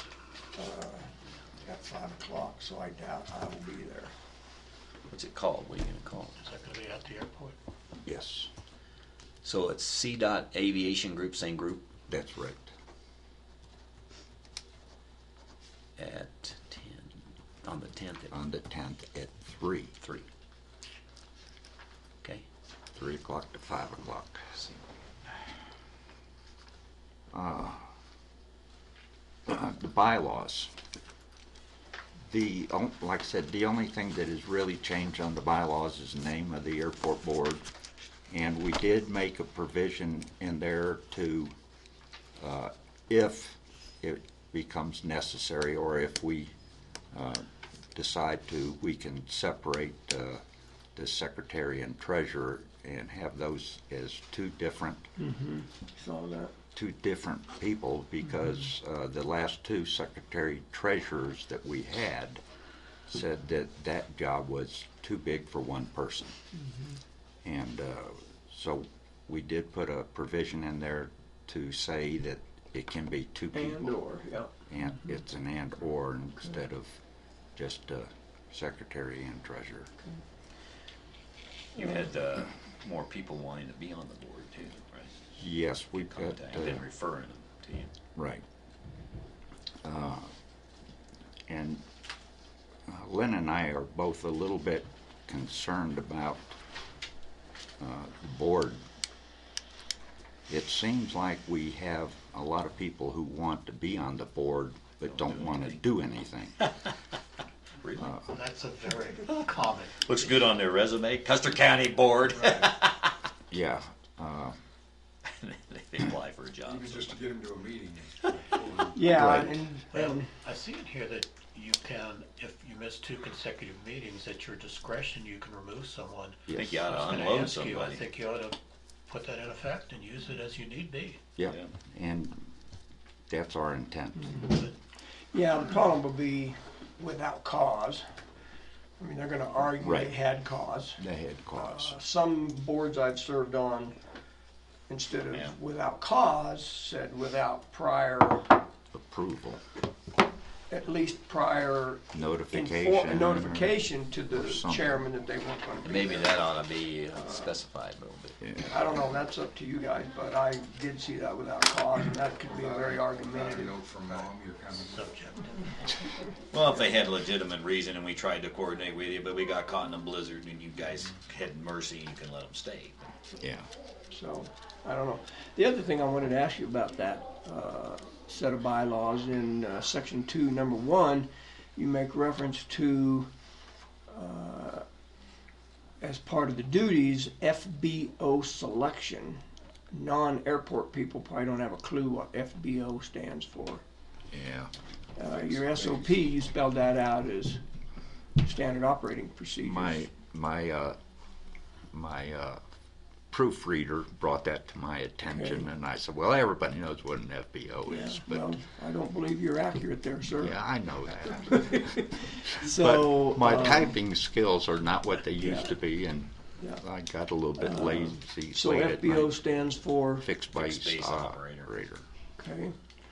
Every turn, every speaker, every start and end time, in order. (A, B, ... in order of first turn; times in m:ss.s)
0:00.5-0:01.1 A
0:01.6-0:04.1 A
0:05.1-0:06.4 B
0:06.4-0:07.6 C
0:08.0-0:08.5 D
0:09.4-0:11.9 B
0:12.1-0:12.7 D
0:16.0-0:18.4 B
0:18.3-0:19.9 D
0:20.0-0:20.3 B
0:22.9-0:24.6 D
0:24.5-0:24.8 B
0:27.3-0:27.8 D
0:29.5-0:30.7 D
0:32.3-0:37.6 D
0:38.3-0:41.5 D
0:42.4-0:46.5 D
0:47.1-0:50.4 D
0:51.0-0:55.1 D
0:55.2-0:56.5 A
0:56.7-1:02.4 D
1:03.1-1:06.4 D
1:07.4-1:13.9 D
1:13.5-1:14.5 A
1:14.7-1:17.0 D
1:17.6-1:19.9 D
1:21.8-1:25.2 B
1:25.4-1:26.8 D
1:25.9-1:27.9 B
1:28.2-1:28.4 D
1:29.8-1:30.3 D
1:31.5-1:31.8 D
1:32.9-1:36.6 D
1:37.8-1:38.8 D
1:40.5-1:46.7 D
1:45.0-1:45.8 B
1:47.8-1:48.2 B
1:48.0-1:48.3 D
1:48.3-1:50.3 C
1:49.2-1:53.1 B
1:52.2-1:52.7 E
1:53.5-1:54.6 D
1:55.3-1:57.2 B
1:56.6-1:59.4 E
1:58.9-2:00.3 A
1:59.1-1:59.6 D
1:59.9-2:11.2 C
2:06.5-2:06.9 D
2:06.5-2:08.1 B
2:11.4-2:12.5 D
2:11.4-2:11.7 B
2:13.3-2:14.4 D
2:14.2-2:14.5 A
2:14.5-2:14.8 C
2:15.3-2:18.0 A
2:19.0-2:21.0 A
2:19.8-2:20.1 D
2:21.0-2:22.0 D
2:21.5-2:24.0 A
2:24.9-2:28.6 A
2:28.9-2:29.6 D
2:30.7-2:36.5 A
2:32.1-2:35.0 D
2:35.8-2:38.6 B
2:37.2-2:37.5 A
2:38.4-2:38.7 D
2:38.6-2:43.8 A
2:42.4-2:45.1 E
2:44.9-2:45.7 C
2:46.5-2:53.1 B
2:53.4-2:53.7 D
2:54.1-3:03.3 A
3:04.1-3:04.8 A
3:06.0-3:13.8 A
3:14.3-3:14.7 D
3:15.2-3:17.6 A
3:15.5-3:16.1 D
3:18.4-3:20.0 A
3:19.6-3:21.0 D
3:21.9-3:22.6 D
3:23.3-3:28.4 D
3:25.3-3:25.7 A
3:27.8-3:30.6 A
3:30.4-3:39.3 D
3:31.2-3:34.0 A
3:35.4-3:35.8 A
3:37.6-3:40.3 A
3:40.2-3:42.0 D
3:40.5-3:41.8 B
3:42.4-3:42.8 A